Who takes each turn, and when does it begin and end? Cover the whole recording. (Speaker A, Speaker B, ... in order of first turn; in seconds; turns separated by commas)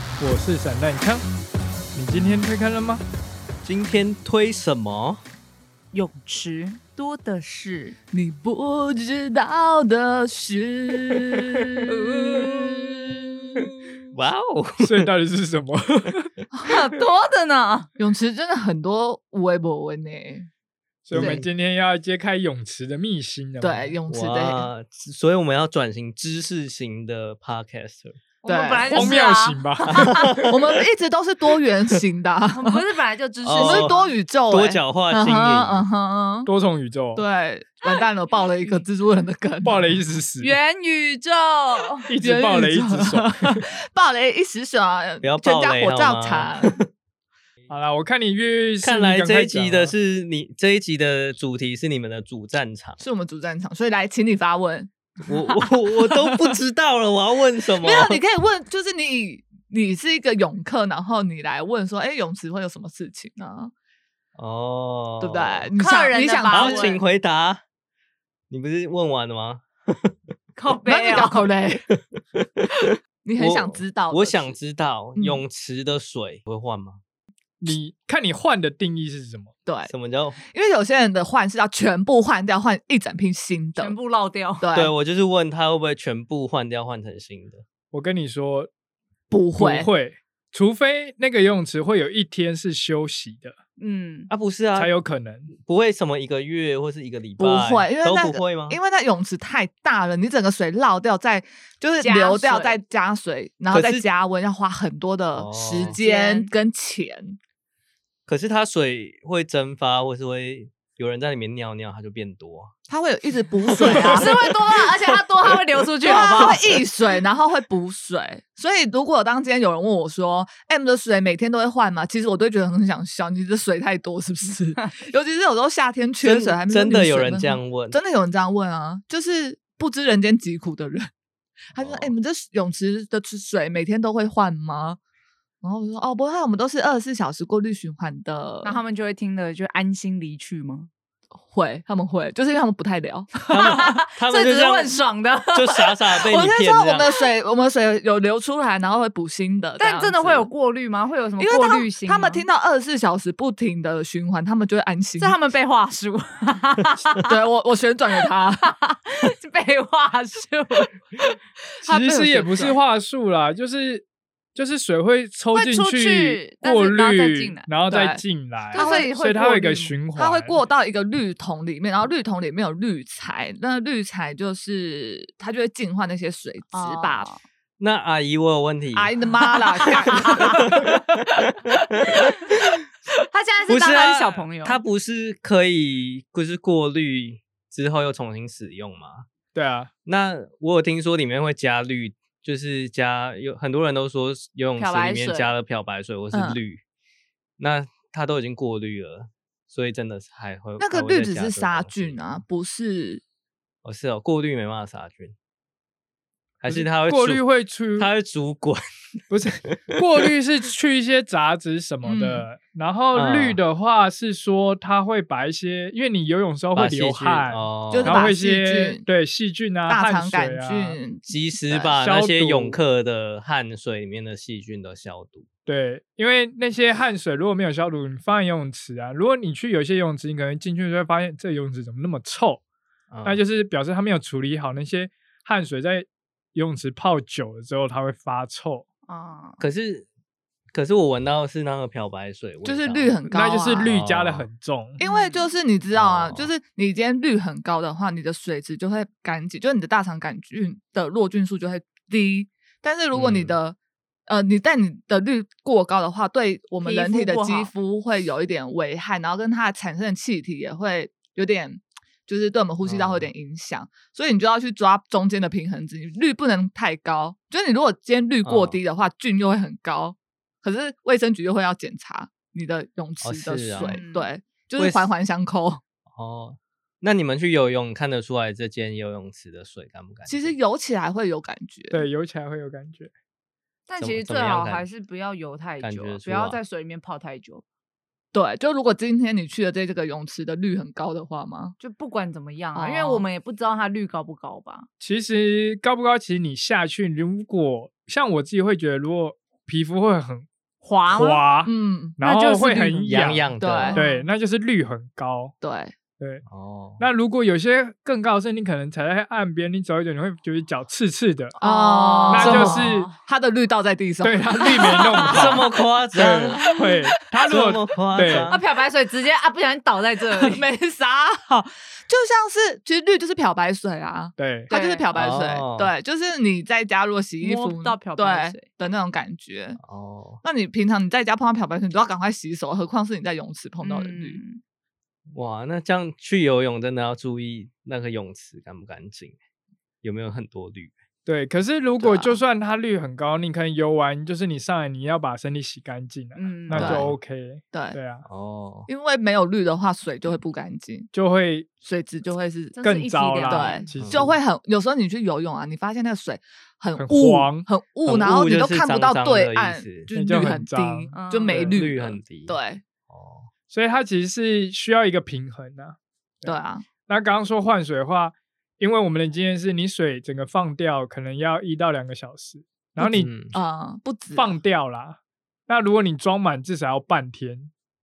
Speaker A: 0.2-1.2, Speaker A: 1.9-3.0, Speaker B: 3.6-5.2, Speaker C: 5.9-8.0, Speaker D: 8.1-13.7, Speaker C: 11.9-13.2, Speaker B: 14.1-15.1, Speaker A: 14.8-16.3, Speaker C: 16.6-17.9, Speaker D: 18.0-20.5, Speaker A: 21.0-23.9, Speaker B: 21.1-21.4, Speaker C: 21.2-21.4, Speaker D: 23.6-24.7, Speaker B: 24.1-28.2, Speaker C: 28.4-30.3, Speaker D: 28.5-29.2, Speaker A: 28.9-30.2, Speaker B: 29.9-30.6, Speaker D: 30.4-32.8, Speaker C: 32.5-34.1, Speaker B: 33.4-33.9, Speaker D: 33.5-36.5, Speaker B: 34.5-35.8, Speaker A: 36.5-37.2, Speaker D: 37.1-39.8, Speaker A: 39.6-40.5, Speaker C: 40.4-42.1, Speaker A: 42.1-43.6, Speaker D: 42.2-46.8, Speaker B: 45.2-46.9, Speaker A: 47.7-49.9, Speaker B: 48.8-53.0, Speaker D: 53.0-56.3, Speaker B: 55.3-58.2, Speaker D: 57.8-63.7, Speaker B: 64.3-65.7, Speaker D: 65.2-66.9, Speaker C: 65.8-67.0, Speaker B: 66.5-67.6, Speaker B: 68.5-70.1, Speaker C: 70.5-71.5, Speaker D: 70.8-71.8, Speaker D: 73.2-74.6, Speaker B: 73.4-77.0, Speaker D: 75.2-75.4, Speaker A: 77.6-79.5, Speaker D: 79.7-79.9, Speaker B: 79.9-80.4, Speaker D: 80.5-83.9, Speaker C: 83.8-84.6, Speaker D: 84.6-84.9, Speaker B: 84.7-87.6, Speaker A: 87.9-88.7, Speaker D: 89.3-89.9, Speaker A: 89.5-93.5, Speaker C: 93.8-94.3, Speaker B: 94.3-94.9, Speaker A: 94.7-95.5, Speaker B: 95.5-98.8, Speaker D: 97.4-107.4, Speaker C: 102.0-102.8, Speaker B: 103.7-104.0, Speaker B: 105.3-106.0, Speaker C: 105.7-106.5, Speaker B: 108.2-112.7, Speaker D: 112.9-114.4, Speaker C: 113.8-116.8, Speaker D: 116.0-131.1, Speaker B: 116.3-116.6, Speaker B: 126.2-128.0, Speaker B: 131.8-132.1, Speaker D: 131.8-135.0, Speaker D: 135.6-138.8, Speaker C: 138.6-140.9, Speaker D: 141.4-143.9, Speaker B: 143.5-145.0, Speaker C: 143.5-146.0, Speaker B: 145.5-147.1, Speaker D: 146.2-150.5, Speaker C: 149.8-152.4, Speaker D: 151.4-155.3, Speaker C: 155.2-157.3, Speaker D: 157.2-158.8, Speaker C: 158.6-160.9, Speaker D: 161.8-162.8, Speaker A: 161.8-170.6, Speaker C: 165.5-167.7, Speaker D: 167.9-168.2, Speaker D: 168.7-169.1, Speaker C: 168.7-170.0, Speaker D: 170.1-177.3, Speaker C: 176.7-177.4, Speaker B: 177.8-179.1, Speaker D: 178.9-180.6, Speaker B: 179.8-182.6, Speaker C: 180.1-180.6, Speaker C: 183.3-184.8, Speaker B: 183.7-189.3, Speaker A: 189.5-189.9, Speaker B: 190.0-196.8, Speaker D: 194.8-195.6, Speaker D: 196.3-196.6, Speaker B: 197.6-202.4, Speaker D: 200.8-203.2, Speaker B: 203.8-205.3, Speaker B: 206.6-207.4, Speaker A: 206.7-208.1, Speaker B: 208.0-208.8, Speaker A: 209.3-221.0, Speaker B: 209.7-210.2, Speaker D: 212.0-212.5, Speaker B: 213.1-213.6, Speaker B: 216.7-218.2, Speaker D: 217.9-219.1, Speaker D: 219.9-221.9, Speaker B: 221.3-225.5, Speaker A: 221.9-222.8, Speaker A: 225.7-232.6, Speaker B: 233.1-233.4, Speaker A: 233.2-238.8, Speaker C: 239.1-239.6, Speaker B: 239.6-240.1, Speaker B: 240.7-243.2, Speaker D: 242.6-243.9, Speaker A: 243.3-245.0, Speaker B: 243.7-244.4, Speaker D: 245.0-253.8, Speaker C: 245.0-245.5, Speaker B: 245.9-246.5, Speaker B: 253.1-253.6, Speaker D: 254.3-275.8, Speaker C: 256.8-257.7, Speaker B: 262.8-263.3, Speaker B: 268.4-268.8, Speaker B: 273.2-274.0, Speaker C: 273.8-274.3, Speaker B: 274.8-275.1, Speaker B: 276.1-280.5, Speaker D: 280.3-282.1, Speaker A: 281.9-283.1, Speaker C: 283.9-287.6, Speaker B: 284.0-284.9, Speaker B: 285.8-286.6, Speaker D: 288.3-291.7, Speaker C: 291.8-294.9, Speaker D: 292.7-293.2, Speaker A: 295.0-300.5, Speaker C: 300.8-301.5, Speaker A: 301.1-305.5, Speaker D: 301.6-302.2, Speaker C: 302.2-304.3, Speaker B: 303.1-304.0, Speaker D: 303.6-304.0, Speaker D: 305.6-305.9, Speaker A: 306.2-306.4, Speaker B: 306.5-307.0, Speaker A: 307.0-311.6, Speaker C: 311.6-313.2, Speaker D: 311.6-315.6, Speaker A: 312.3-313.1, Speaker A: 314.2-318.5, Speaker B: 315.3-316.6, Speaker D: 316.6-316.9, Speaker B: 317.5-318.6, Speaker C: 318.3-320.6, Speaker D: 320.4-329.8, Speaker A: 324.4-324.7, Speaker C: 324.7-325.1, Speaker B: 325.1-325.9, Speaker C: 327.4-328.6, Speaker B: 329.8-330.4, Speaker D: 330.4-334.4, Speaker C: 333.8-334.6, Speaker B: 335.3-339.4, Speaker B: 340.0-340.9, Speaker A: 341.2-348.2, Speaker D: 342.0-342.4, Speaker C: 346.4-346.9, Speaker B: 346.7-347.1, Speaker D: 346.8-347.0, Speaker D: 347.7-348.0, Speaker B: 348.2-348.9, Speaker D: 348.9-351.1, Speaker A: 351.1-351.7, Speaker D: 351.8-352.8, Speaker C: 352.7-353.9, Speaker A: 352.8-354.3, Speaker D: 353.4-362.8, Speaker B: 353.9-354.3, Speaker A: 357.0-357.7, Speaker B: 358.0-360.1, Speaker A: 360.1-361.8, Speaker C: 361.1-361.7, Speaker B: 361.6-362.6, Speaker B: 363.1-363.5, Speaker A: 363.7-366.6, Speaker D: 366.4-366.8, Speaker A: 367.1-373.3, Speaker D: 373.0-374.6, Speaker B: 373.1-373.5, Speaker A: 374.4-377.7